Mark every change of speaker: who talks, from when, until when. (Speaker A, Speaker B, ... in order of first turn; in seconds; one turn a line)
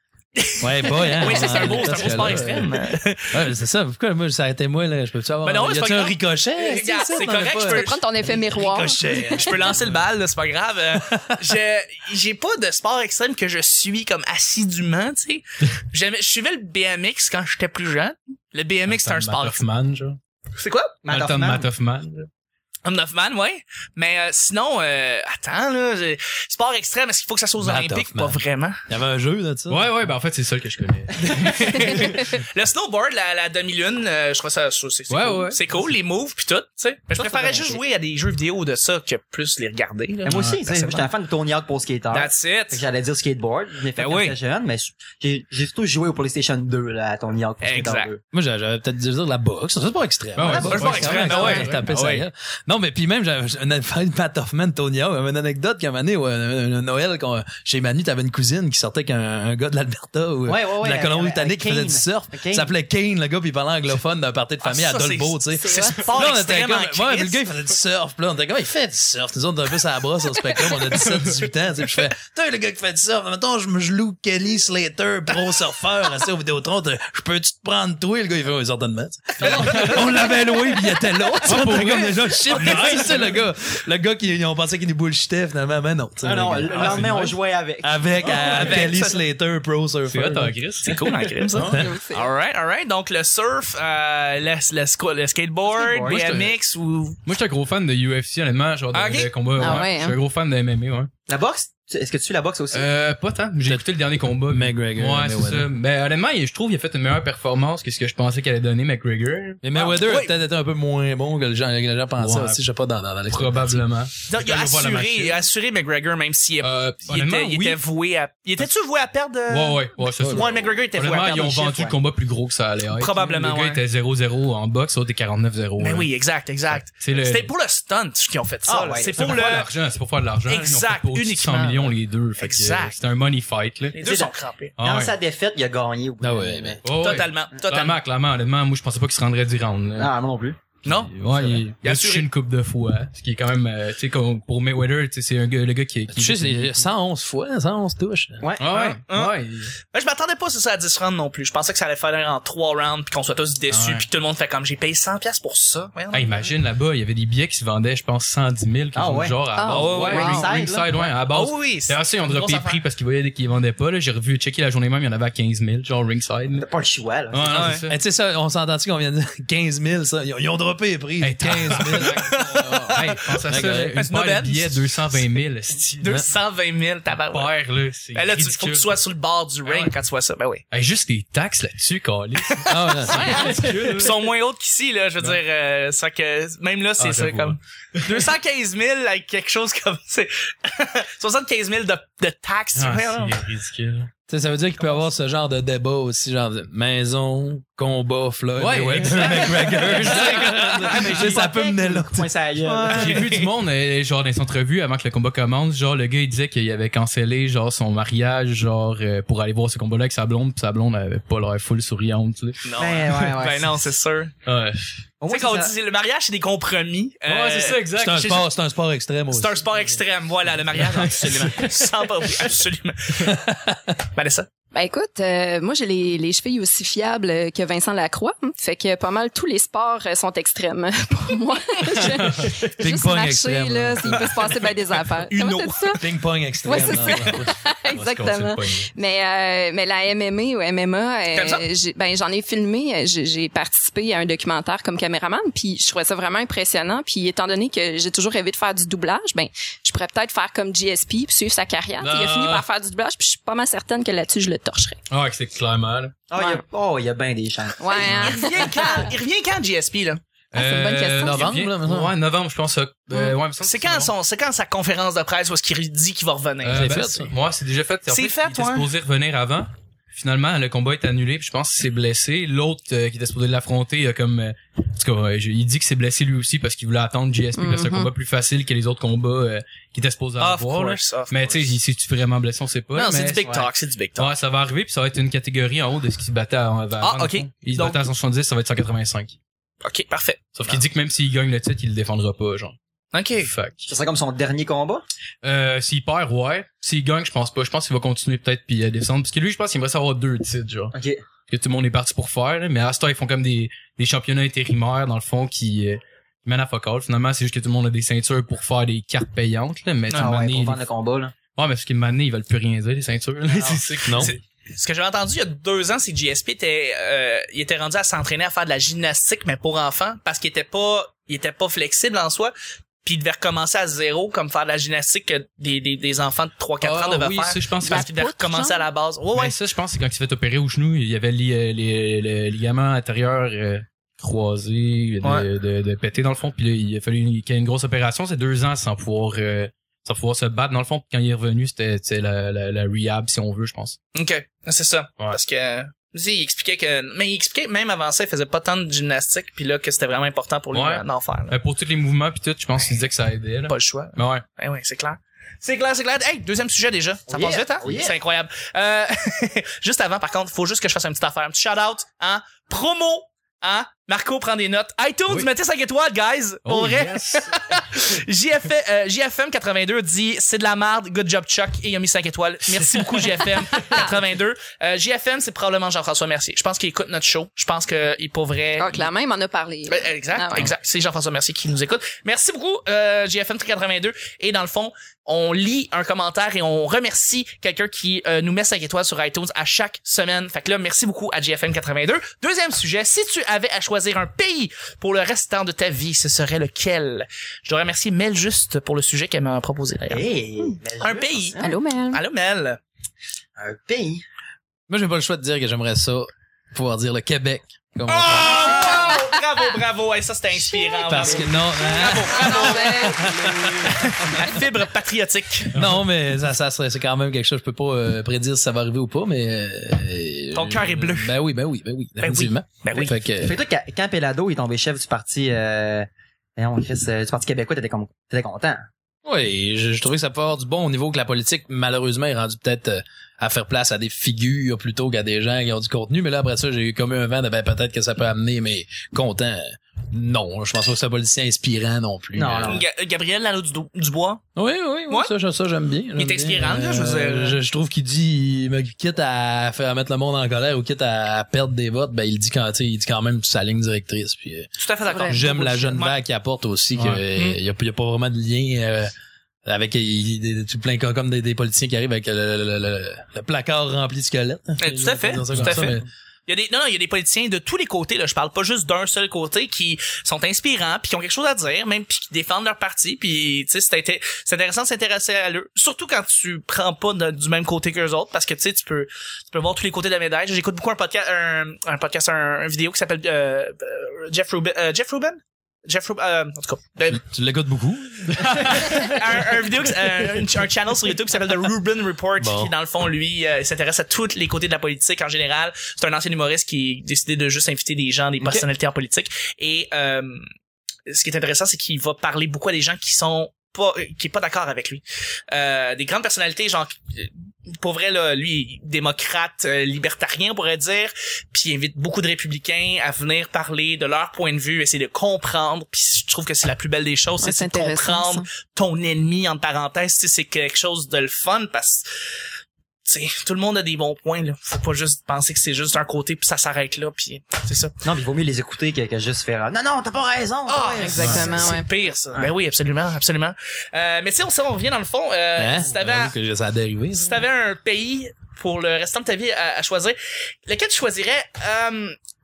Speaker A: 0.4-3.5
Speaker B: 0.6-10.1
Speaker A: 5.4-8.0
Speaker C: 6.7-7.1
Speaker C: 7.7-9.4
Speaker A: 9.2-19.6
Speaker B: 10.9-11.3
Speaker B: 18.9-20.1
Speaker D: 19.4-20.2
Speaker A: 20.6-21.0
Speaker E: 21.0-21.7
Speaker D: 21.1-22.3
Speaker A: 22.8-28.8
Speaker B: 27.6-29.9
Speaker D: 29.7-32.0
Speaker A: 31.3-41.1
Speaker D: 35.1-35.6
Speaker E: 37.1-37.8
Speaker E: 40.2-48.2
Speaker D: 40.3-40.5
Speaker A: 42.1-42.9
Speaker A: 44.0-44.4
Speaker A: 47.6-48.1
Speaker B: 48.3-90.6
Speaker D: 50.3-51.9
Speaker E: 50.4-51.7
Speaker A: 50.5-52.2
Speaker E: 60.5-62.7
Speaker A: 64.6-65.4
Speaker C: 65.5-66.2
Speaker A: 66.0-67.4
Speaker D: 70.7-71.4
Speaker A: 79.4-81.7
Speaker D: 79.4-80.1
Speaker D: 81.4-83.2
Speaker A: 82.5-83.3
Speaker E: 86.2-88.1
Speaker D: 86.8-87.3
Speaker A: 88.2-89.2
Speaker D: 90.1-90.9
Speaker A: 90.8-97.2
Speaker C: 91.7-92.3
Speaker E: 95.6-96.3
Speaker D: 96.1-96.5
Speaker D: 97.2-101.1
Speaker A: 98.9-99.3
Speaker C: 99.6-100.2
Speaker E: 99.6-99.9
Speaker E: 101.3-102.9
Speaker D: 102.7-109.6
Speaker B: 104.4-105.7
Speaker B: 109.6-113.9
Speaker A: 109.7-110.3
Speaker D: 112.2-112.6
Speaker D: 113.3-115.4
Speaker A: 114.3-121.9
Speaker D: 116.6-117.8
Speaker D: 119.5-126.1
Speaker B: 120.1-120.5
Speaker E: 121.6-121.9
Speaker A: 122.9-123.8
Speaker A: 125.8-129.7
Speaker D: 126.7-127.5
Speaker E: 128.7-129.6
Speaker D: 129.2-134.0
Speaker A: 130.4-132.9
Speaker A: 133.9-134.7
Speaker E: 134.0-136.8
Speaker D: 134.8-135.1
Speaker B: 136.2-136.8
Speaker D: 136.8-140.1
Speaker A: 137.0-138.0
Speaker E: 139.9-140.6
Speaker A: 140.8-142.3
Speaker D: 140.8-146.9
Speaker B: 146.1-148.5
Speaker D: 148.6-149.7
Speaker A: 148.7-149.3
Speaker A: 149.9-156.3
Speaker D: 153.7-154.1
Speaker D: 156.1-166.6
Speaker E: 158.9-161.1
Speaker C: 159.5-160.2
Speaker A: 159.6-160.3
Speaker A: 161.3-162.8
Speaker E: 166.5-167.7
Speaker D: 167.3-168.0
Speaker A: 167.5-167.8
Speaker B: 167.8-172.2
Speaker D: 171.2-176.2
Speaker A: 171.7-175.3
Speaker B: 173.4-174.0
Speaker A: 176.0-177.5
Speaker D: 177.3-178.9
Speaker A: 178.1-180.6
Speaker D: 179.6-179.9
Speaker D: 180.7-184.2
Speaker A: 182.4-193.4
Speaker B: 182.6-183.3
Speaker C: 183.3-183.7
Speaker B: 187.0-187.5
Speaker D: 187.0-188.2
Speaker D: 192.8-194.1
Speaker B: 194.3-202.3
Speaker D: 198.5-201.6
Speaker A: 199.8-201.9
Speaker E: 202.1-203.2
Speaker D: 202.5-212.6
Speaker A: 202.9-203.5
Speaker A: 212.6-214.3
Speaker E: 212.8-213.7
Speaker D: 214.4-214.9
Speaker E: 215.2-215.7
Speaker A: 215.2-218.5
Speaker D: 217.2-218.2
Speaker B: 218.0-219.7
Speaker A: 219.3-223.4
Speaker D: 221.0-221.6
Speaker B: 223.2-224.0
Speaker A: 224.1-224.5
Speaker C: 224.7-236.0
Speaker D: 231.9-232.5
Speaker B: 232.8-234.7
Speaker A: 235.3-236.0
Speaker B: 236.0-237.6
Speaker C: 236.6-255.0
Speaker D: 237.9-238.9
Speaker A: 241.3-241.6
Speaker D: 252.0-252.7
Speaker D: 255.1-256.1
Speaker E: 256.3-257.9
Speaker C: 256.3-256.6
Speaker C: 257.8-259.1
Speaker D: 258.0-258.4
Speaker A: 258.1-260.2
Speaker D: 260.5-264.1
Speaker C: 260.6-261.5
Speaker B: 261.2-262.2
Speaker C: 263.1-263.4
Speaker A: 263.6-266.8
Speaker D: 266.6-289.4
Speaker B: 266.7-267.4
Speaker A: 268.1-268.9
Speaker C: 277.5-278.1
Speaker A: 280.4-281.7
Speaker A: 282.9-284.3
Speaker A: 287.0-288.0
Speaker A: 289.8-290.8
Speaker D: 290.5-292.8
Speaker A: 293.1-293.5
Speaker D: 293.4-293.8
Speaker E: 293.8-295.0
Speaker D: 295.4-300.9
Speaker E: 300.9-301.2
Speaker D: 301.5-310.8
Speaker A: 310.1-310.4
Speaker E: 310.1-311.3
Speaker D: 311.5-314.3
Speaker E: 313.5-313.8
Speaker B: 314.0-314.3
Speaker A: 314.0-329.6
Speaker D: 326.8-328.1
Speaker C: 327.8-328.9
Speaker D: 329.3-344.0
Speaker A: 344.1-351.6
Speaker D: 350.7-354.4
Speaker A: 353.7-379.1
Speaker E: 357.3-358.2
Speaker D: 366.6-367.7
Speaker C: 373.7-374.1
Speaker C: 378.8-380.7
Speaker A: 379.9-400.3
Speaker E: 400.1-401.7
Speaker A: 401.0-401.6
Speaker C: 401.6-402.2
Speaker A: 402.1-402.8
Speaker E: 403.6-404.2
Speaker B: 404.9-408.6
Speaker A: 408.1-413.2
Speaker C: 408.5-409.2
Speaker C: 410.9-413.9
Speaker B: 411.0-413.9
Speaker A: 413.9-415.7
Speaker B: 415.7-423.6
Speaker A: 420.5-421.4
Speaker A: 422.2-423.1
Speaker E: 422.9-428.8
Speaker B: 429.2-442.8
Speaker E: 442.3-442.8
Speaker A: 442.6-444.4
Speaker B: 444.6-454.7
Speaker A: 446.1-447.6
Speaker A: 454.8-456.2
Speaker C: 455.1-455.4
Speaker B: 455.2-459.1
Speaker D: 456.9-457.2
Speaker B: 459.6-466.1
Speaker A: 464.8-487.2
Speaker D: 465.5-465.9
Speaker B: 487.1-488.8
Speaker D: 488.4-489.1
Speaker A: 488.8-500.4
Speaker B: 492.4-492.7
Speaker E: 498.4-498.6
Speaker A: 501.1-522.1
Speaker C: 517.4-518.4
Speaker A: 523.0-527.9
Speaker E: 528.0-531.7
Speaker A: 530.6-536.4
Speaker C: 531.0-531.9
Speaker D: 531.2-531.5
Speaker B: 535.5-537.4
Speaker A: 537.1-542.1